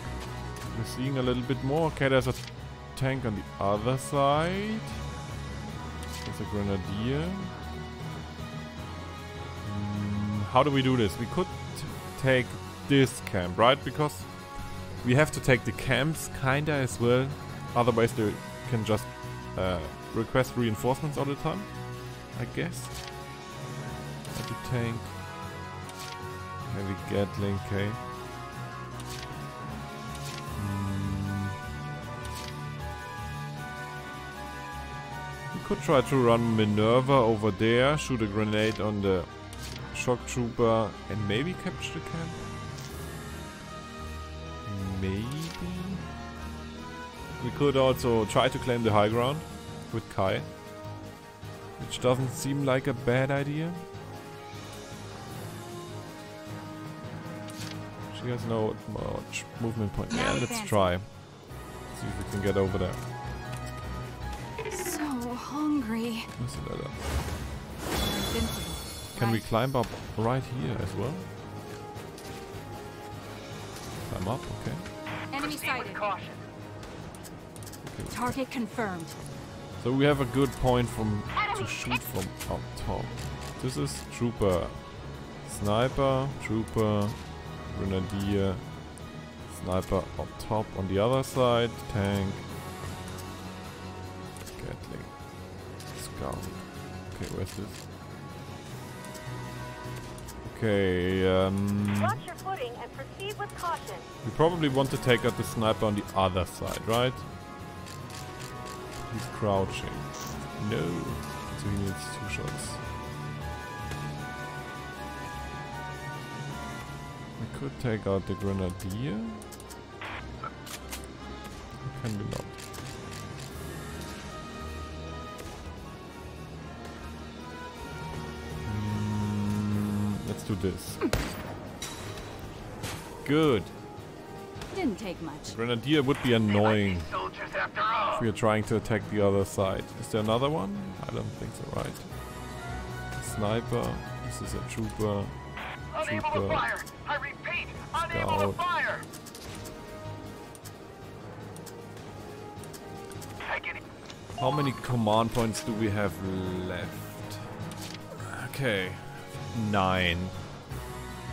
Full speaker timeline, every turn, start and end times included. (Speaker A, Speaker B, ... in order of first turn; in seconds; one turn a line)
Speaker A: 0.6-5.0
Speaker A: 6.2-7.5
Speaker A: 9.6-23.0
Speaker A: 24.3-25.1
Speaker A: 26.6-28.0
Speaker A: 30.5-31.6
Speaker A: 35.5-42.4
Speaker A: 44.6-46.0
Speaker A: 47.4-50.5
Speaker A: 51.8-53.9
Speaker A: 58.1-61.2
Speaker B: 60.1-61.0
Speaker A: 61.9-63.0
Speaker B: 64.7-66.3
Speaker A: 66.4-67.0
Speaker B: 67.9-69.4
Speaker A: 69.1-71.3
Speaker A: 74.0-74.9
Speaker B: 75.3-76.1
Speaker C: 75.4-76.4
Speaker A: 77.8-78.4
Speaker B: 78.1-79.2
Speaker A: 79.8-88.9
Speaker B: 81.3-82.0
Speaker A: 89.4-92.4
Speaker A: 94.5-95.3
Speaker A: 95.9-97.8
Speaker A: 100.4-102.2
Speaker D: 102.0-104.1
Speaker A: 104.2-107.2
Speaker A: 109.1-112.8
Speaker A: 117.4-119.5
Speaker A: 121.8-122.6
Speaker A: 128.6-131.0
Speaker A: 133.2-133.7
Speaker B: 134.7-135.6
Speaker A: 135.4-137.1
Speaker C: 136.5-138.2
Speaker A: 138.1-142.1
Speaker A: 143.1-146.7
Speaker C: 145.9-149.1
Speaker A: 148.1-148.6
Speaker C: 153.4-153.8
Speaker A: 154.4-157.4
Speaker A: 158.1-160.3